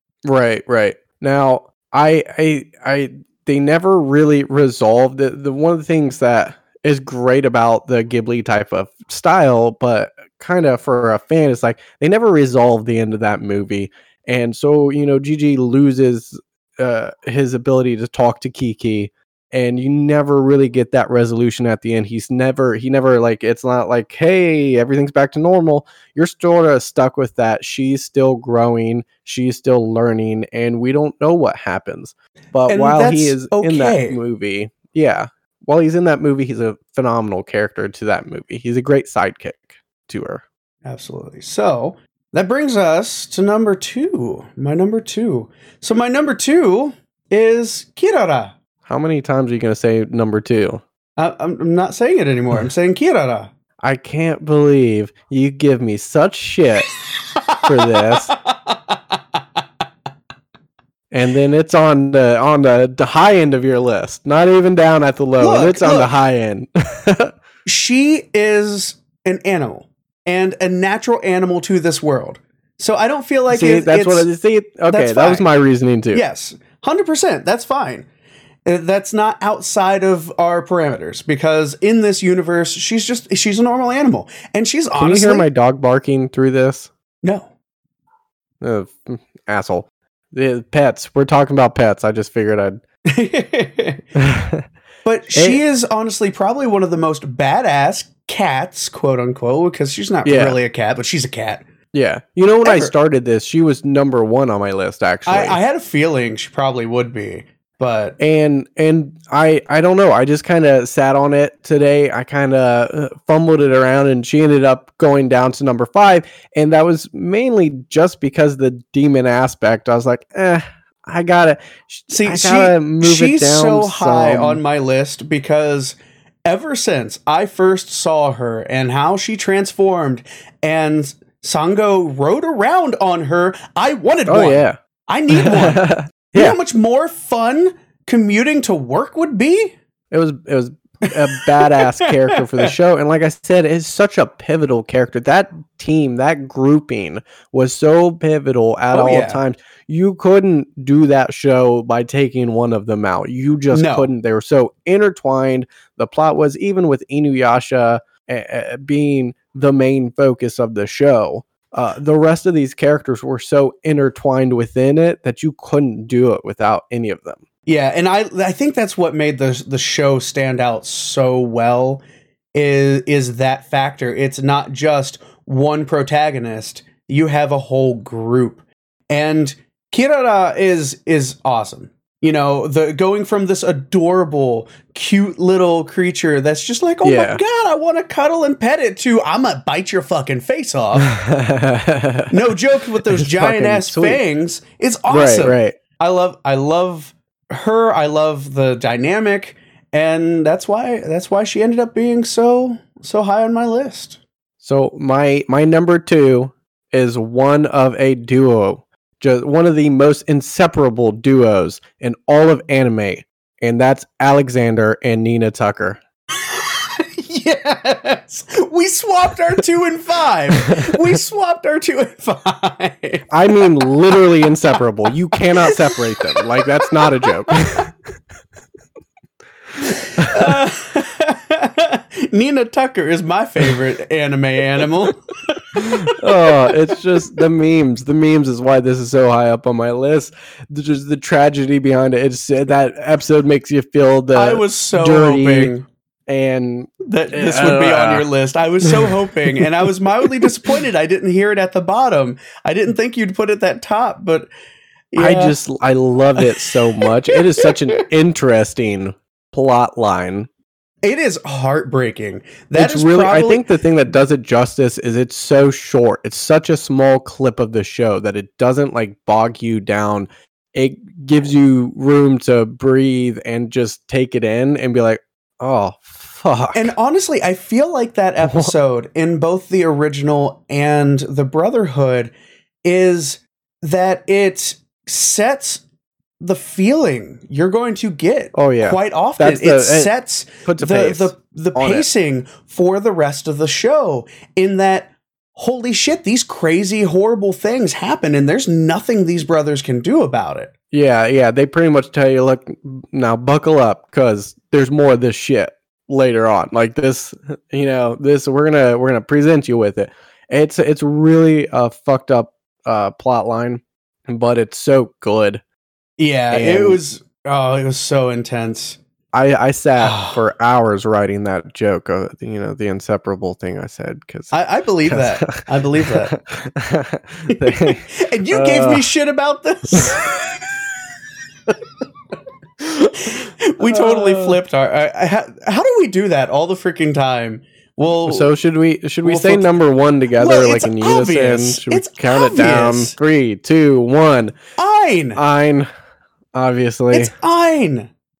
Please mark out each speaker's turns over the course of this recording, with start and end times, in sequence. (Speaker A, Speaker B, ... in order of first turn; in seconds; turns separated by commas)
Speaker A: 0.2-40.4, Speaker B: 32.7-34.2, Speaker B: 40.8-48.5, Speaker A: 48.9-50.8, Speaker B: 51.2-53.5, Speaker A: 53.8-56.9, Speaker B: 57.5-58.9, Speaker A: 57.6-58.3, Speaker A: 61.1-67.3, Speaker B: 65.4-66.1, Speaker B: 67.7-74.3, Speaker A: 73.5-76.2, Speaker B: 74.9-75.5, Speaker B: 76.1-78.0, Speaker B: 78.7-85.5, Speaker A: 84.9-86.9, Speaker B: 87.2-87.5, Speaker A: 88.6-92.8, Speaker B: 93.1-94.0, Speaker A: 94.1-94.6, Speaker B: 95.0-101.6, Speaker A: 95.3-95.6, Speaker A: 100.2-100.6, Speaker A: 101.9-105.6, Speaker B: 102.6-102.9, Speaker B: 105.2-108.2, Speaker A: 108.2-124.6, Speaker B: 122.1-139.7, Speaker A: 134.3-134.8, Speaker A: 135.3-136.6, Speaker A: 140.1-167.4, Speaker B: 141.1-142.7, Speaker B: 148.9-149.4, Speaker B: 153.7-154.1, Speaker B: 167.7-172.0, Speaker B: 172.5-191.1, Speaker A: 187.0-187.4, Speaker A: 190.9-192.4, Speaker B: 192.3-204.2, Speaker A: 193.1-194.2, Speaker A: 195.1-195.8, Speaker A: 204.6-216.0, Speaker B: 216.4-223.3, Speaker A: 220.6-221.1, Speaker A: 223.3-227.9, Speaker B: 225.7-227.3, Speaker B: 229.8-236.2, Speaker A: 230.2-230.6, Speaker A: 235.8-245.7, Speaker B: 244.3-245.8, Speaker A: 246.3-248.3, Speaker B: 247.0-254.5, Speaker A: 248.8-249.7, Speaker B: 255.1-255.5, Speaker A: 255.2-260.5, Speaker B: 256.4-258.0, Speaker B: 261.0-263.6, Speaker A: 262.7-276.9, Speaker B: 276.7-282.3, Speaker A: 278.4-278.7, Speaker B: 282.8-285.8, Speaker B: 286.4-300.7, Speaker A: 288.5-290.1, Speaker A: 290.6-292.1, Speaker A: 300.9-315.6, Speaker B: 316.2-319.0, Speaker A: 316.5-317.0, Speaker A: 319.3-329.1, Speaker B: 320.0-320.4, Speaker B: 324.5-326.3, Speaker B: 327.5-330.6, Speaker B: 333.2-338.5, Speaker A: 333.8-334.6, Speaker A: 338.2-344.6, Speaker B: 339.2-339.7, Speaker B: 340.4-343.1, Speaker B: 344.8-345.4, Speaker A: 345.3-345.9, Speaker A: 346.5-347.3, Speaker B: 347.1-348.1